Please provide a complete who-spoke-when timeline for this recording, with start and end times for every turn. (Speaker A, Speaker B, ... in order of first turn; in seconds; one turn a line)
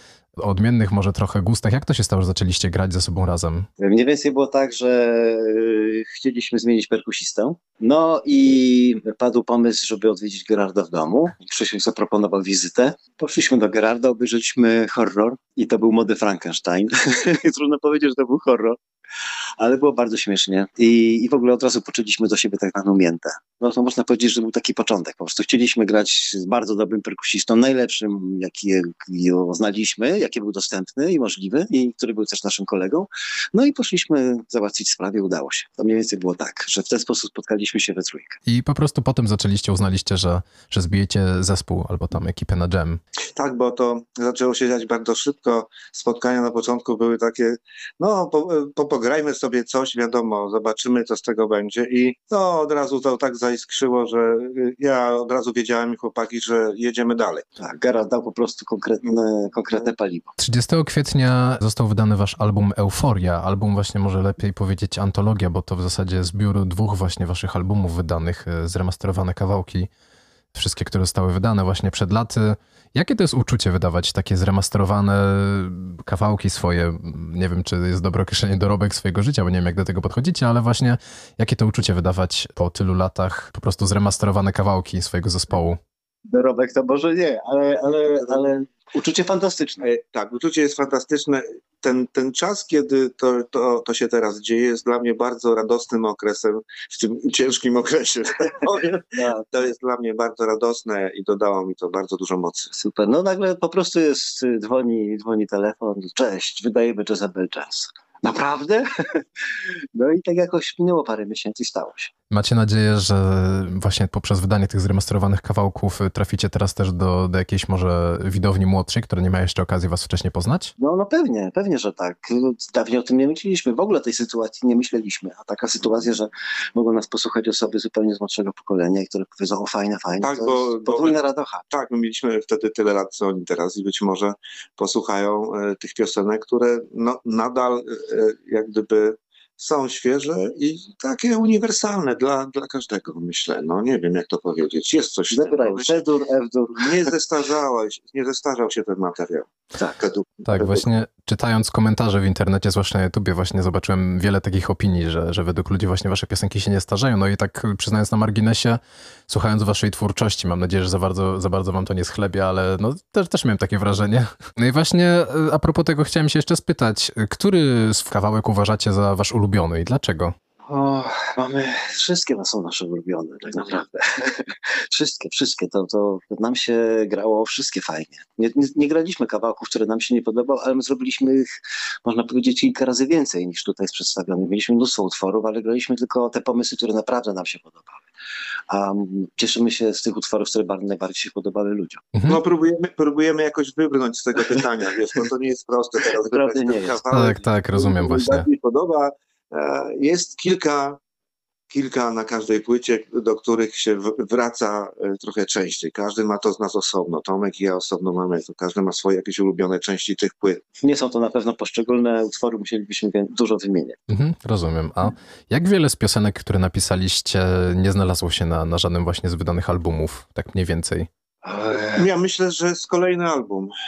Speaker A: 0.4-3.7
Speaker B: 3.8-18.8
Speaker B: 19.6-38.3
Speaker A: 38.5-43.0
Speaker C: 43.4-57.5
Speaker B: 57.6-60.4
Speaker A: 60.4-69.9
Speaker A: 70.5-85.8
Speaker B: 86.3-89.8
Speaker C: 89.8-102.7
Speaker B: 99.1-99.4
Speaker B: 102.7-112.1
Speaker A: 112.3-120.7
Speaker B: 120.8-131.6
Speaker C: 130.2-131.2
Speaker C: 131.7-146.0
Speaker B: 145.3-147.1
Speaker C: 146.8-149.5
Speaker B: 149.8-150.8
Speaker A: 150.4-170.3
Speaker B: 170.7-188.1
Speaker B: 188.7-192.0
Speaker C: 192.2-201.0
Speaker B: 196.2-197.0
Speaker A: 197.1-198.5
Speaker C: 201.7-210.6
Speaker B: 210.8-213.9
Speaker A: 214.1-221.1
Speaker B: 221.4-222.1
Speaker C: 221.9-223.7